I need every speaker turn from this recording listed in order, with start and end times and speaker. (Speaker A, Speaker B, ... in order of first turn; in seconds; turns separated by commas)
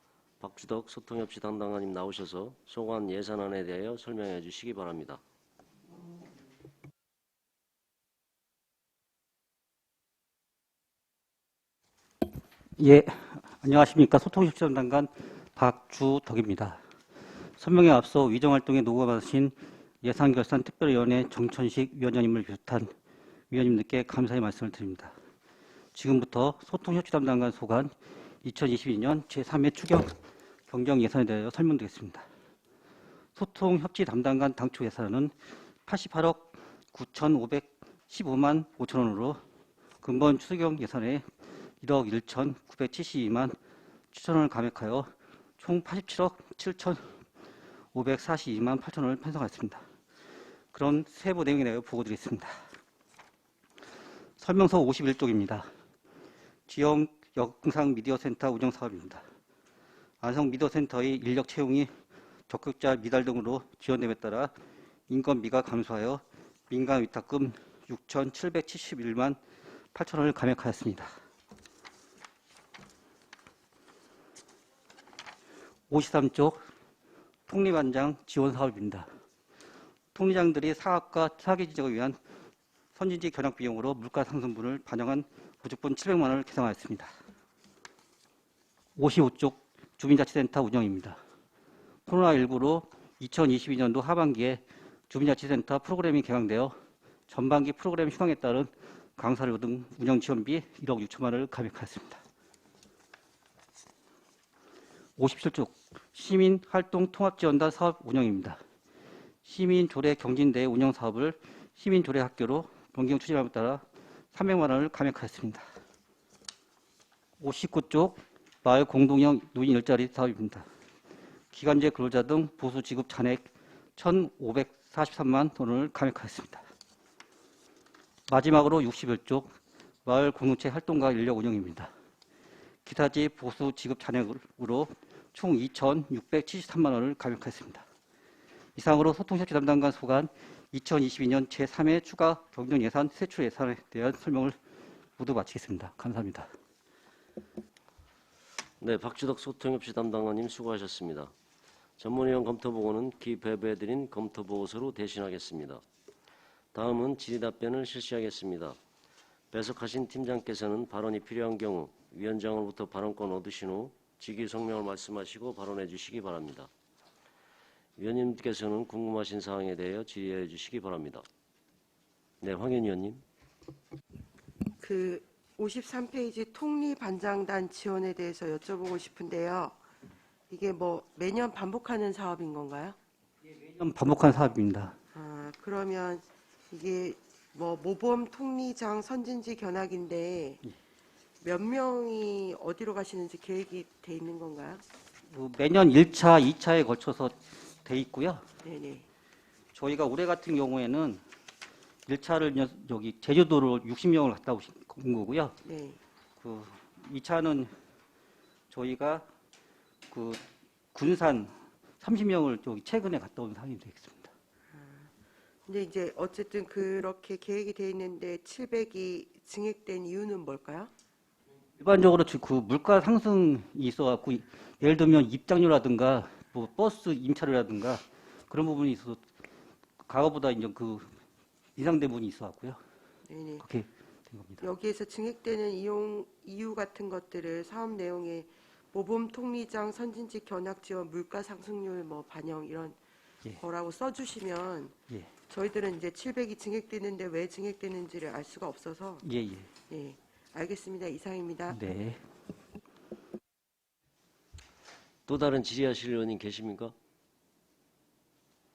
Speaker A: 0.4-5.2, Speaker B: 12.8-16.8, Speaker B: 17.6-22.9, Speaker B: 23.5-25.1, Speaker B: 25.9-27.9, Speaker B: 28.4-30.1, Speaker B: 30.7-32.2, Speaker B: 33.4-35.3, Speaker B: 35.9-39.4, Speaker B: 40.0-41.3, Speaker B: 41.8-43.5, Speaker B: 44.1-47.2, Speaker B: 47.9-49.8, Speaker B: 50.7-52.5, Speaker B: 54.4-55.7, Speaker B: 56.7-59.2, Speaker B: 60.2-61.9, Speaker B: 62.5-64.5, Speaker B: 65.1-69.4, Speaker B: 69.9-71.1, Speaker B: 75.9-76.6, Speaker B: 77.5-79.1, Speaker B: 80.1-82.2, Speaker B: 83.0-87.1, Speaker B: 89.0-91.2, Speaker B: 92.1-96.7, Speaker B: 97.3-102.2, Speaker B: 105.2-108.6, Speaker B: 109.5-113.8, Speaker B: 114.3-115.7, Speaker B: 117.4-120.7, Speaker B: 121.5-126.6, Speaker B: 128.3-131.9, Speaker B: 132.8-137.8, Speaker B: 138.8-144.6, Speaker B: 145.2-146.5, Speaker A: 148.8-151.3, Speaker A: 152.0-155.8, Speaker A: 156.7-158.8, Speaker A: 159.5-166.7, Speaker A: 168.0-171.2, Speaker A: 172.4-173.2, Speaker C: 174.8-179.8, Speaker C: 180.5-183.0, Speaker B: 183.6-185.0, Speaker C: 185.2-190.6, Speaker C: 191.4-194.8, Speaker B: 195.3-198.5, Speaker C: 198.6-199.1, Speaker B: 199.7-201.2, Speaker B: 202.1-205.6, Speaker C: 205.6-206.0, Speaker B: 206.4-207.7, Speaker B: 208.7-209.3, Speaker B: 210.1-210.4, Speaker B: 210.9-214.3, Speaker C: 214.7-215.1, Speaker C: 215.7-220.9, Speaker B: 221.8-229.2, Speaker B: 230.0-231.1, Speaker B: 231.8-232.8, Speaker C: 233.3-233.6, Speaker B: 233.6-234.6, Speaker C: 234.6-243.0, Speaker C: 243.6-245.0, Speaker C: 245.5-249.2, Speaker B: 249.2-249.7, Speaker C: 249.9-251.8, Speaker B: 251.7-252.2, Speaker A: 255.3-256.9